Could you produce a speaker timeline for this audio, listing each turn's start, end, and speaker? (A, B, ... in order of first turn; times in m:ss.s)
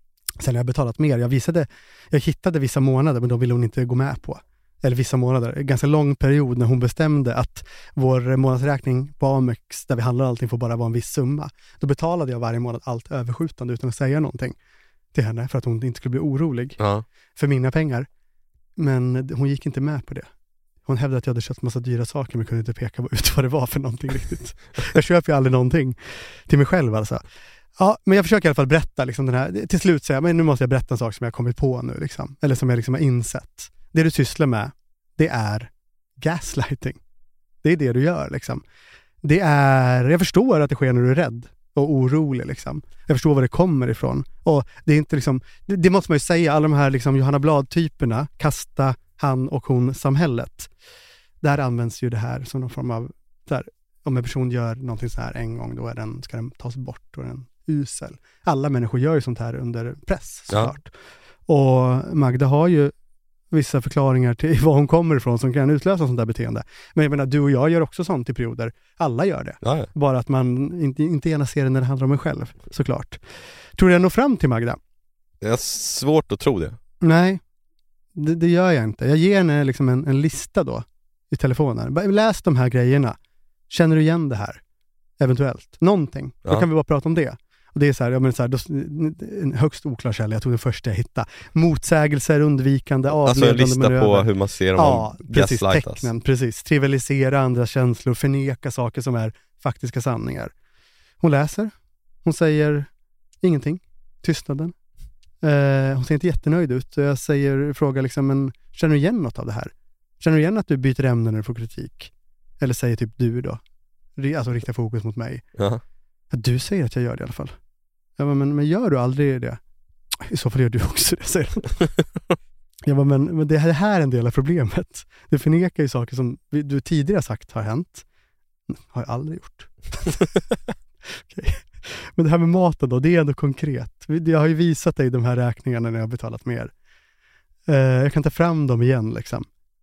0:00.4-0:14.6 A
0:15.1-0:16.8 A
0:16.8-0:17.0 B
0:17.3-0:18.1 A
0:18.8-0:20.3 A
0:20.8-0:27.2 A
0:27.8-0:37.0 A
0:37.6-0:38.6 A
0:39.2-0:50.7 A
0:51.4-1:00.9 A
1:01.5-1:02.9 A
1:03.5-1:13.2 A
1:09.6-1:09.9 B
1:13.8-1:14.8 A
1:15.4-1:16.8 B
1:17.0-1:17.4 A
1:18.1-1:23.2 A
1:23.7-1:24.6 A
1:25.2-1:40.5 A
1:33.1-1:36.1 B
1:41.2-1:41.7 A
1:42.2-1:42.9 A
1:43.4-1:44.7 A
1:45.4-1:53.6 A
1:54.2-1:55.4 A
1:55.6-1:55.8 B
1:56.3-1:57.5 A
1:58.2-1:59.6 A
2:00.2-2:01.8 A
2:02.8-2:08.0 A
2:08.7-2:10.4 A
2:11.2-2:16.7 A
2:17.7-2:19.5 A